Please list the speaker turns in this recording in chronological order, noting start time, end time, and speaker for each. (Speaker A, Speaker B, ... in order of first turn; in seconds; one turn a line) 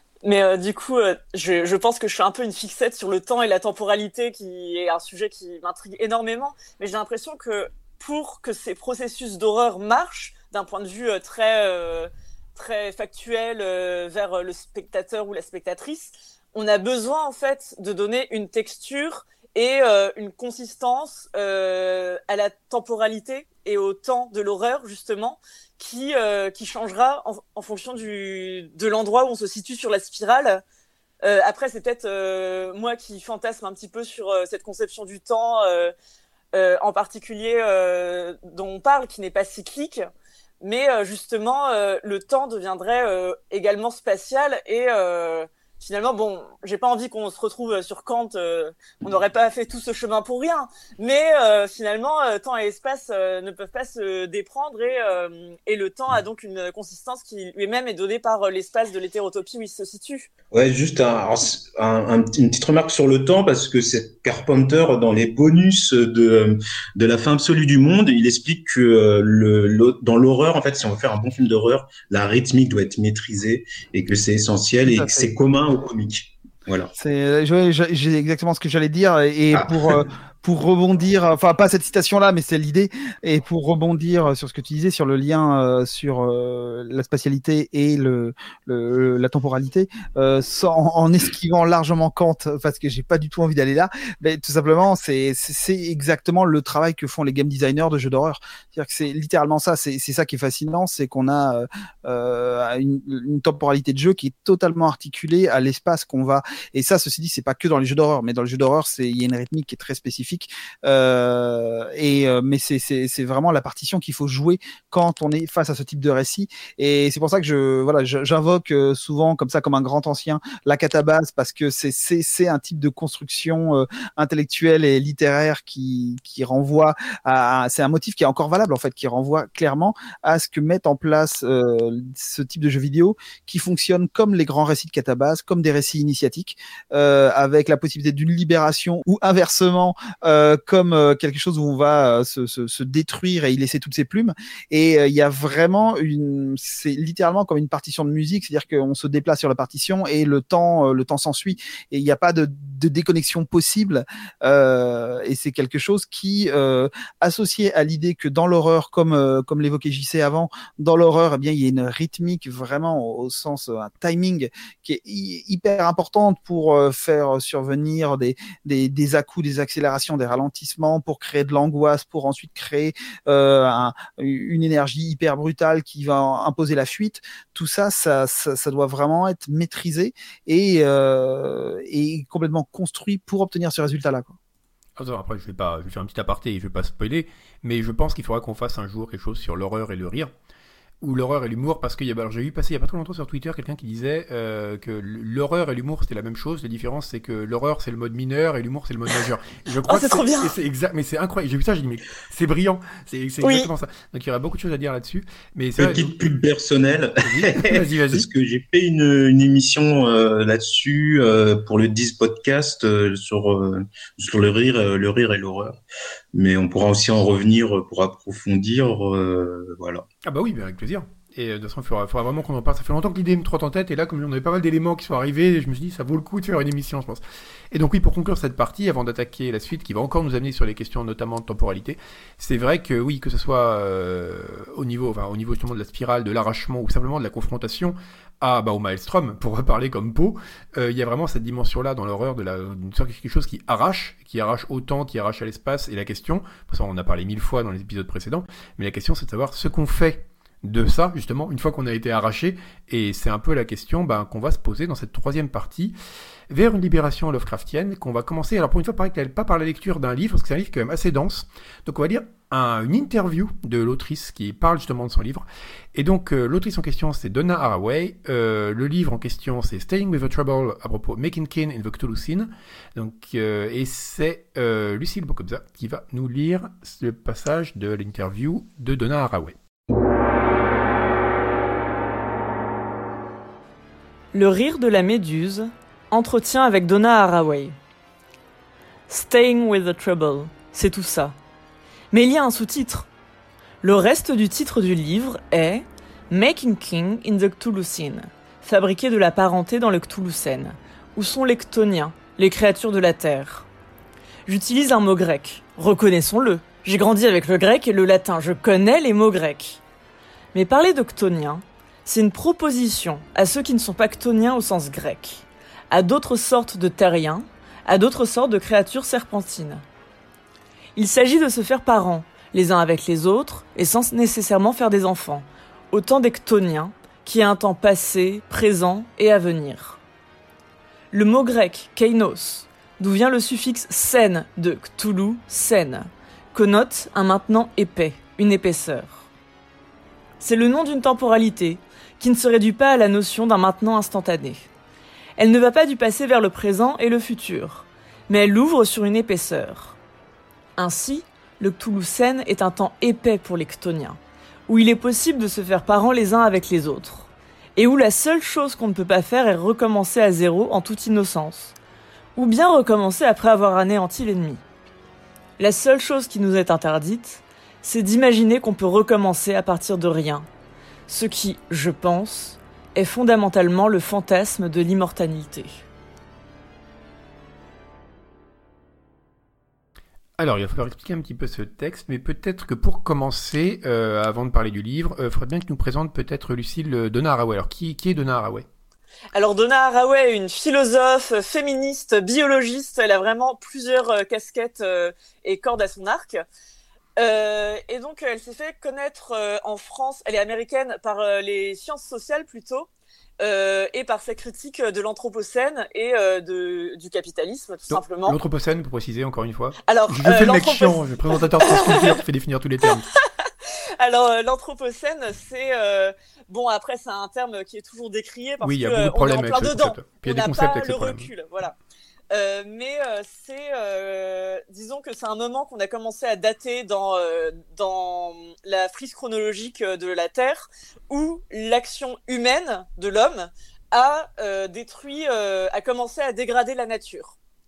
Speaker A: 0.2-30.6
Speaker A: 31.2-35.9
Speaker A: 36.5-40.1
Speaker A: 40.6-60.3
Speaker B: 60.5-76.9
Speaker C: 74.8-75.3
Speaker C: 76.9-184.4
Speaker B: 79.5-79.9
Speaker D: 185.0-190.3
Speaker D: 191.0-206.1
Speaker A: 199.9-200.5
Speaker A: 203.4-203.7
Speaker B: 205.8-215.8
Speaker D: 207.2-208.3
Speaker B: 216.3-220.0
Speaker D: 220.2-255.9
Speaker D: 256.5-279.5
Speaker A: 284.3-287.8
Speaker A: 289.1-291.4
Speaker A: 292.1-293.1
Speaker A: 293.8-303.7
Speaker A: 304.5-309.8
Speaker A: 310.5-319.8
Speaker A: 320.9-330.0
Speaker A: 331.1-339.3
Speaker A: 340.4-344.7
Speaker A: 345.4-350.0
Speaker A: 350.8-361.7
Speaker A: 362.4-364.6
Speaker A: 365.6-370.4
Speaker A: 371.1-375.8
Speaker D: 380.4-388.6
Speaker A: 389.3-396.4
Speaker A: 397.2-402.9
Speaker A: 403.4-408.4
Speaker D: 407.9-413.1
Speaker A: 409.8-411.0
Speaker A: 411.6-412.1
Speaker A: 414.0-421.8
Speaker D: 418.6-421.3
Speaker A: 422.3-437.3